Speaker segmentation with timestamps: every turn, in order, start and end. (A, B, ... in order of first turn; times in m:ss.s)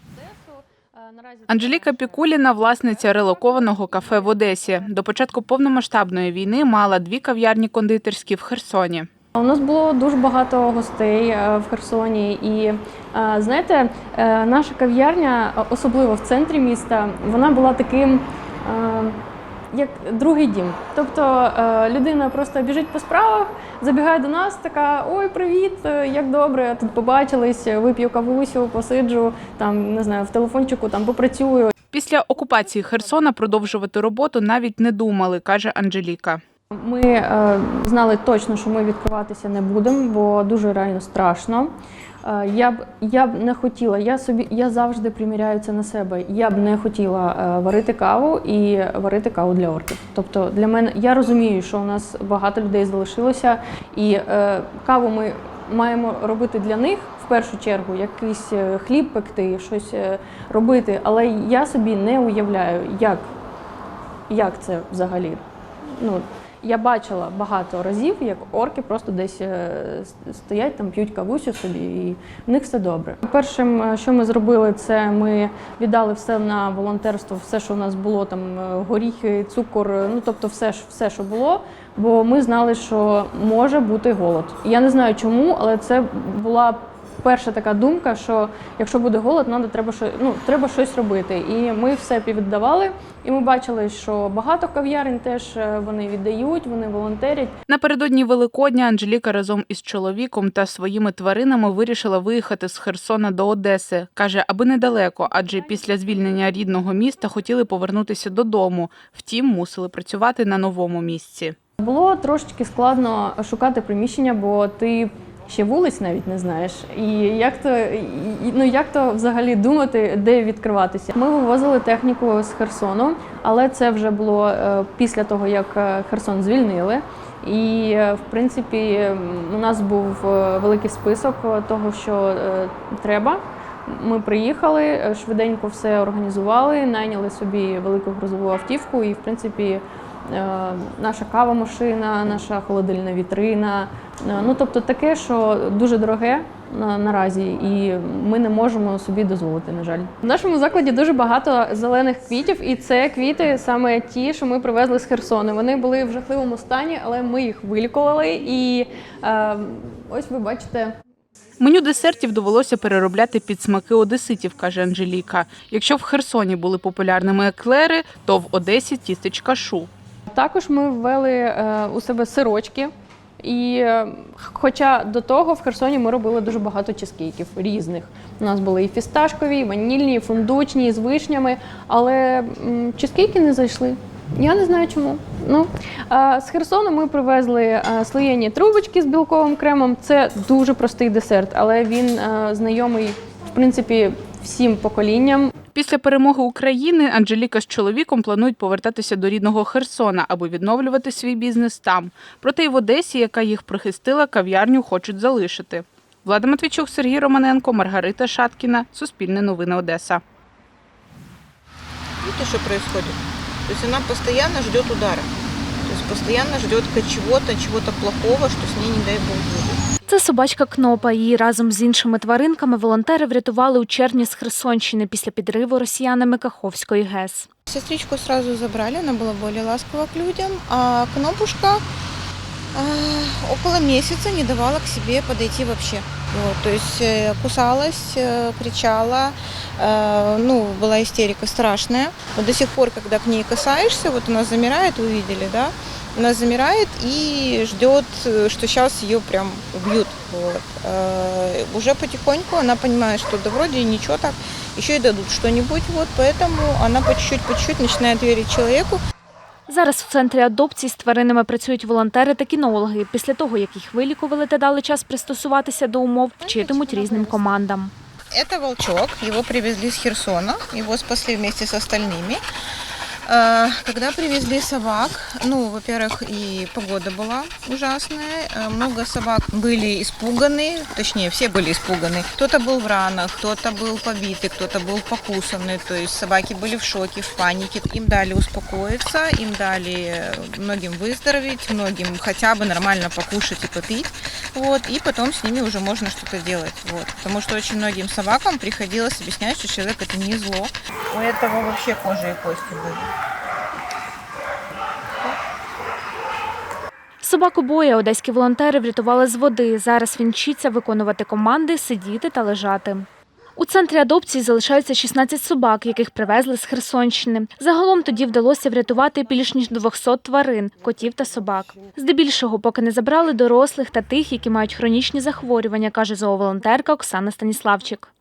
0:00.1-0:04.0 A
0:01.5-0:09.1 B
0:09.4-0:19.2 A
0:19.7-0:31.7 A
0:31.9-0:36.4 B
0:36.7-0:41.7 A
0:42.2-1:03.3 A
1:04.3-1:05.4 A
1:06.0-1:37.5 A
1:37.7-1:51.6 B
1:51.8-2:40.9 A
2:41.6-2:49.9 B
2:50.3-3:15.5 A
3:15.7-3:30.2 B
3:32.2-3:35.3 C
3:35.8-3:39.8 C
3:40.1-3:47.5 D
3:47.7-3:51.8 C
3:52.7-4:19.0 C
4:19.7-4:27.9 D
4:26.4-4:27.4 C
4:28.3-4:32.4 C
4:33.2-5:03.1 C
5:07.2-5:28.1 D